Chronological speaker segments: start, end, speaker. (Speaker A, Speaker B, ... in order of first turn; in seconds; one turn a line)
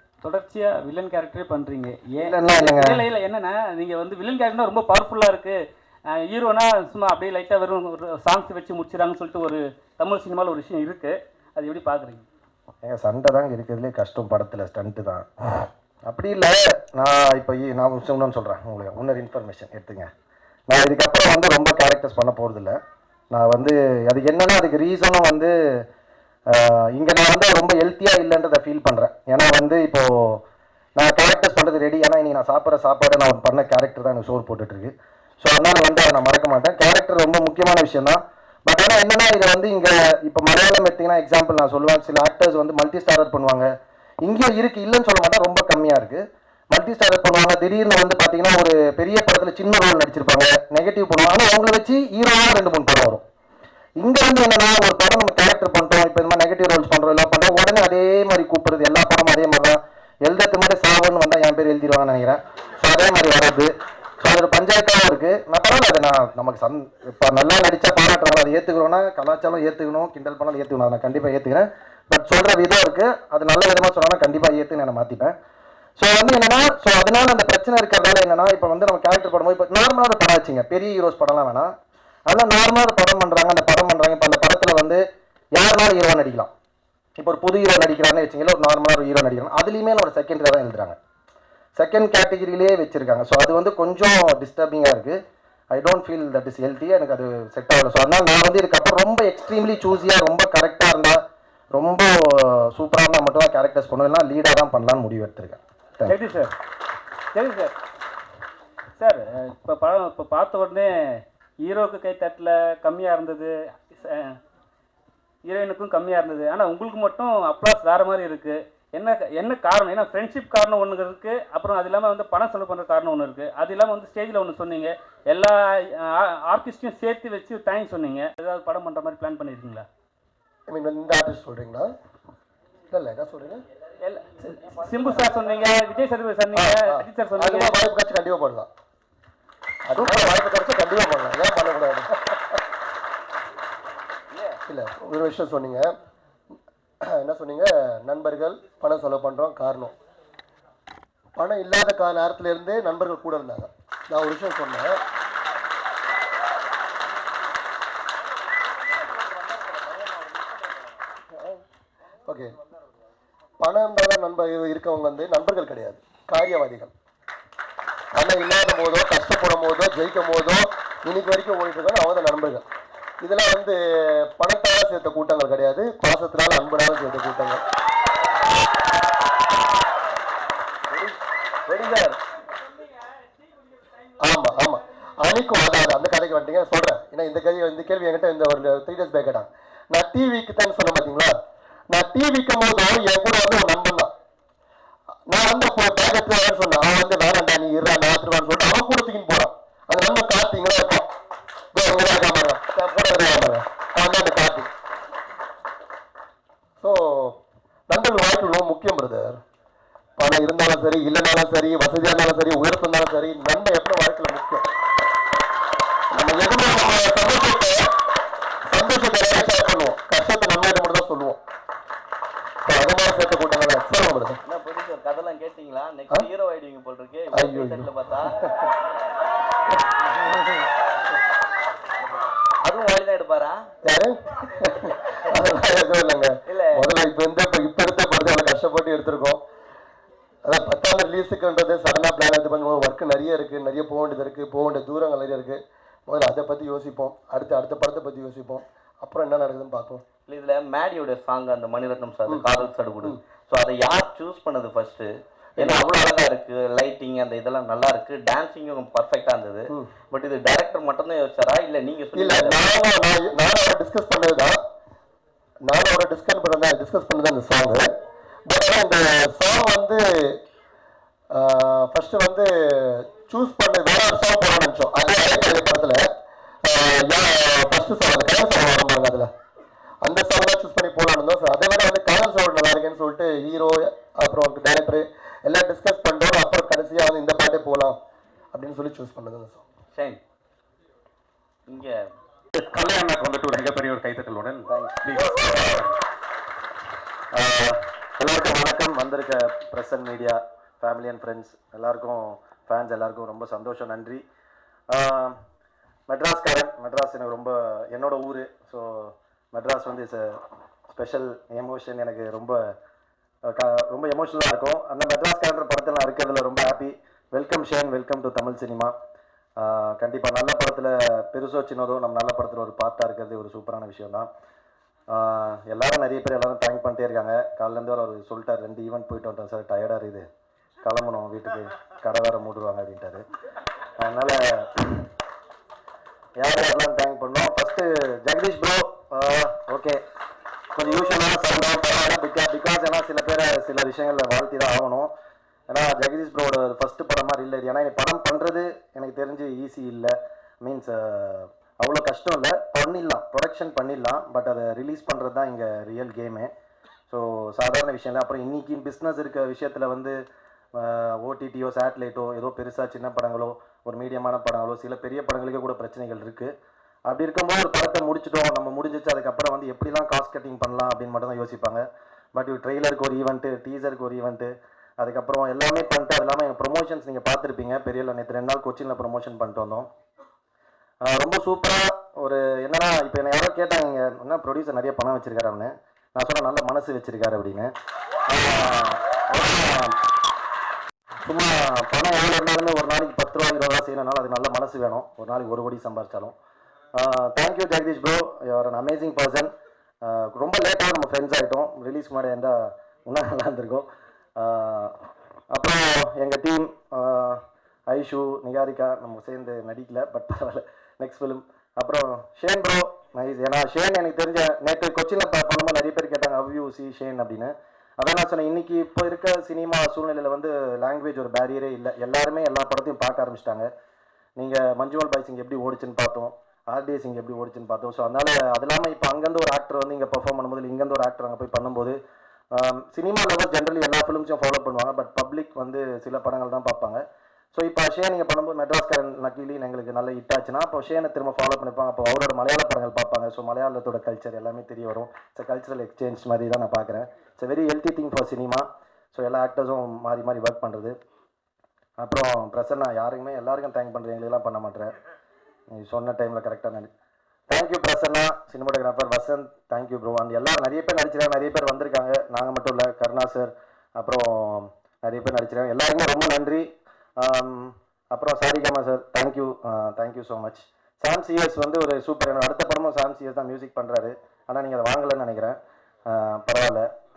Speaker A: 0.2-5.6
Speaker B: 2.2-3.0
Speaker A: 6.1-12.2
Speaker B: 12.8-20.1
Speaker B: 20.7-22.8
Speaker B: 23.3-25.8
Speaker B: 26.5-30.4
Speaker B: 30.9-43.7
Speaker B: 44.2-53.2
Speaker B: 54.0-75.3
Speaker B: 76.0-81.7
Speaker B: 82.3-86.5
Speaker B: 87.2-91.0
Speaker B: 91.8-95.2
Speaker B: 95.7-101.2
Speaker B: 101.7-106.2
Speaker A: 106.0-106.5
Speaker A: 107.3-107.7
Speaker A: 109.0-114.4
Speaker A: 115.4-129.8
Speaker C: 130.7-131.9
Speaker C: 132.9-133.6
Speaker A: 134.0-137.8
Speaker C: 136.5-138.7
Speaker C: 139.8-142.6
Speaker C: 144.7-145.9
Speaker C: 147.0-149.9
Speaker C: 151.3-155.0
Speaker C: 161.3-161.6
Speaker C: 162.2-162.5
Speaker C: 163.6-166.9
Speaker C: 168.1-172.7
Speaker C: 173.2-177.6
Speaker D: 180.9-182.2
Speaker C: 184.2-191.3
Speaker C: 191.9-194.1
Speaker C: 195.3-201.1
Speaker C: 201.7-204.7
Speaker C: 206.8-207.4
Speaker C: 207.9-209.4
Speaker C: 210.2-214.6
Speaker C: 216.1-217.9
Speaker C: 218.7-221.4
Speaker C: 222.6-224.4
Speaker D: 224.4-228.5
Speaker C: 227.3-228.5
Speaker D: 232.6-233.7
Speaker C: 233.8-239.4
Speaker D: 236.5-236.8
Speaker C: 240.4-250.0
Speaker D: 250.3-262.7
Speaker C: 255.6-255.9
Speaker C: 262.1-264.6
Speaker C: 265.6-267.9
Speaker C: 268.5-270.4
Speaker C: 271.3-276.1
Speaker C: 276.6-279.3
Speaker C: 280.0-288.0
Speaker C: 288.5-289.6
Speaker D: 289.9-290.2
Speaker D: 291.7-292.1
Speaker E: 292.6-296.0
Speaker B: 294.7-295.0
Speaker B: 297.3-304.2
Speaker B: 304.9-305.4
Speaker B: 306.1-312.6
Speaker B: 313.4-318.9
Speaker B: 319.6-324.3
Speaker B: 325.1-330.3
Speaker B: 330.8-333.2
Speaker B: 334.0-335.1
Speaker B: 336.4-340.0
Speaker B: 340.7-345.1
Speaker B: 345.7-356.5
Speaker B: 357.1-360.2
Speaker B: 360.7-366.5
Speaker B: 367.1-371.8
Speaker B: 372.3-379.9
Speaker B: 381.0-387.7
Speaker B: 388.3-390.0
Speaker B: 391.2-396.3
Speaker B: 396.9-399.5
Speaker B: 400.0-405.0
Speaker B: 405.5-423.7
Speaker B: 424.4-432.0
Speaker B: 432.5-437.0
Speaker B: 437.5-450.9
Speaker B: 452.0-454.9
Speaker B: 455.7-456.9
Speaker B: 457.5-476.9